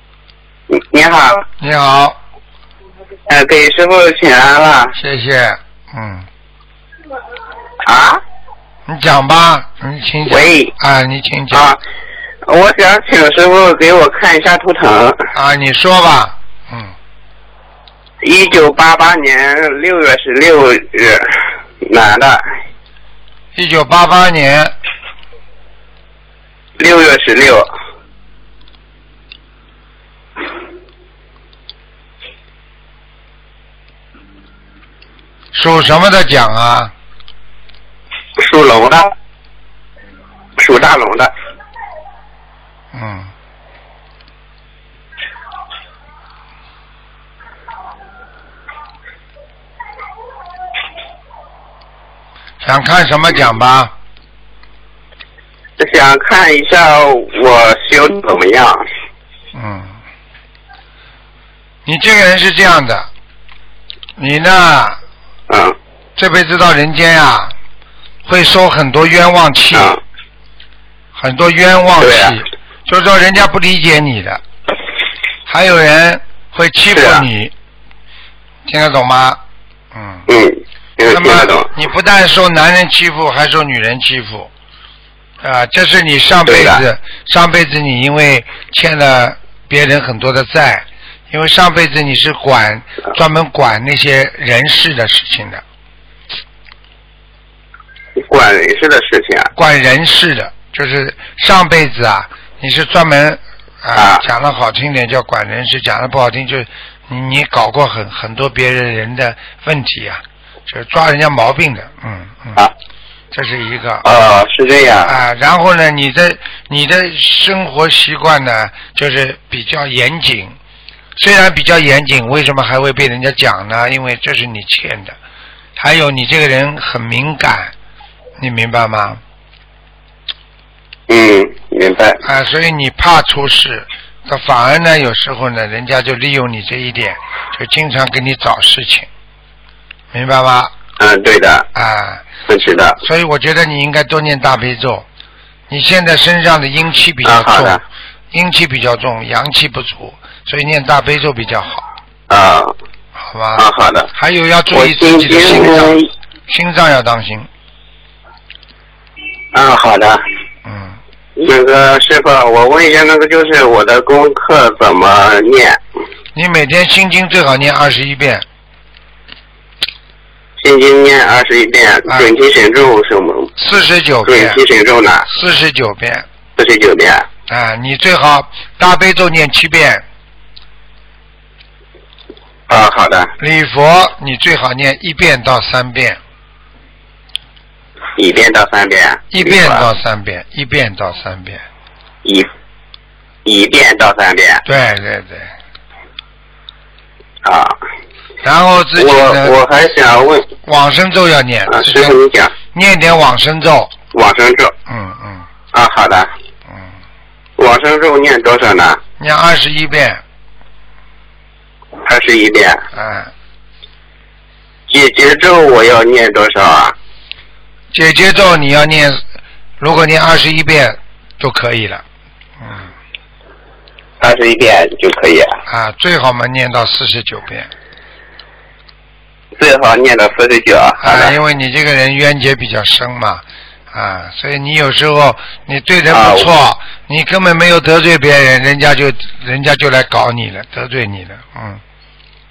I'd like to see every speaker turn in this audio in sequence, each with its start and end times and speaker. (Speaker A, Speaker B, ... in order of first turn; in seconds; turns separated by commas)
Speaker A: 0.7-1.4, Speaker B: 1.6-2.2, Speaker A: 3.3-4.9, Speaker B: 4.9-6.3, Speaker A: 7.8-8.2, Speaker B: 8.9-11.7, Speaker A: 10.3-10.7, Speaker A: 11.5-11.8, Speaker A: 12.4-15.2, Speaker B: 15.3-16.9, Speaker A: 18.2-22.5, Speaker B: 23.5-24.7, Speaker A: 26.8-27.7, Speaker B: 35.5-36.9, Speaker A: 38.4-39.1, Speaker A: 40.6-41.3, Speaker B: 42.9-43.3, Speaker B: 52.6-53.9, Speaker A: 55.8-58.8, Speaker B: 59.5-59.9, Speaker B: 61.8-63.1, Speaker B: 64.2-65.0, Speaker A: 65.5-65.8, Speaker B: 66.2-67.5, Speaker B: 68.2-70.0, Speaker A: 69.7-70.0, Speaker B: 71.1-74.4, Speaker A: 72.0-72.4, Speaker B: 75.5-77.5, Speaker A: 76.9-77.2, Speaker B: 78.7-79.4, Speaker B: 79.9-80.2, Speaker A: 80.3-81.7, Speaker B: 81.1-84.5, Speaker B: 85.4-95.6, Speaker A: 86.5-86.8, Speaker A: 98.2-99.5, Speaker B: 99.5-112.6, Speaker A: 104.0-104.2, Speaker B: 113.3-114.1, Speaker A: 114.0-115.2, Speaker B: 115.0-120.6, Speaker B: 121.2-125.2, Speaker B: 125.8-127.7, Speaker B: 128.4-129.2, Speaker A: 131.1-132.2, Speaker B: 132.2-139.1, Speaker B: 140.1-140.7, Speaker A: 141.0-141.7, Speaker B: 141.7-145.1, Speaker A: 142.5-143.0, Speaker B: 145.7-147.8, Speaker A: 147.2-147.8, Speaker B: 148.3-151.8, Speaker A: 152.3-152.7, Speaker B: 153.2-153.6, Speaker A: 153.6-154.1, Speaker B: 154.2-157.5, Speaker A: 154.7-156.1, Speaker A: 159.5-160.2, Speaker B: 160.7-161.0, Speaker A: 161.4-165.8, Speaker B: 166.3-168.4, Speaker A: 170.6-173.5, Speaker B: 172.1-172.3, Speaker B: 173.6-174.6, Speaker A: 174.2-175.3, Speaker B: 175.2-176.2, Speaker A: 176.6-177.3, Speaker B: 177.5-180.0, Speaker A: 182.7-183.3, Speaker B: 183.4-186.2, Speaker A: 188.2-189.8, Speaker B: 189.3-191.6, Speaker A: 193.4-194.6, Speaker B: 194.7-195.5, Speaker A: 197.4-197.8, Speaker B: 198.4-199.5, Speaker A: 199.0-200.5, Speaker B: 200.6-202.2, Speaker A: 201.7-202.5, Speaker B: 202.7-203.9, Speaker A: 204.1-204.7, Speaker B: 204.9-205.5, Speaker A: 205.7-206.3, Speaker A: 207.6-209.0, Speaker B: 209.2-210.2, Speaker A: 212.0-212.8, Speaker B: 212.9-213.3, Speaker A: 214.9-216.9, Speaker B: 217.9-219.2, Speaker B: 219.8-222.0, Speaker A: 224.2-225.6, Speaker B: 225.7-227.7, Speaker A: 229.6-231.3, Speaker B: 231.0-241.8, Speaker A: 236.1-236.5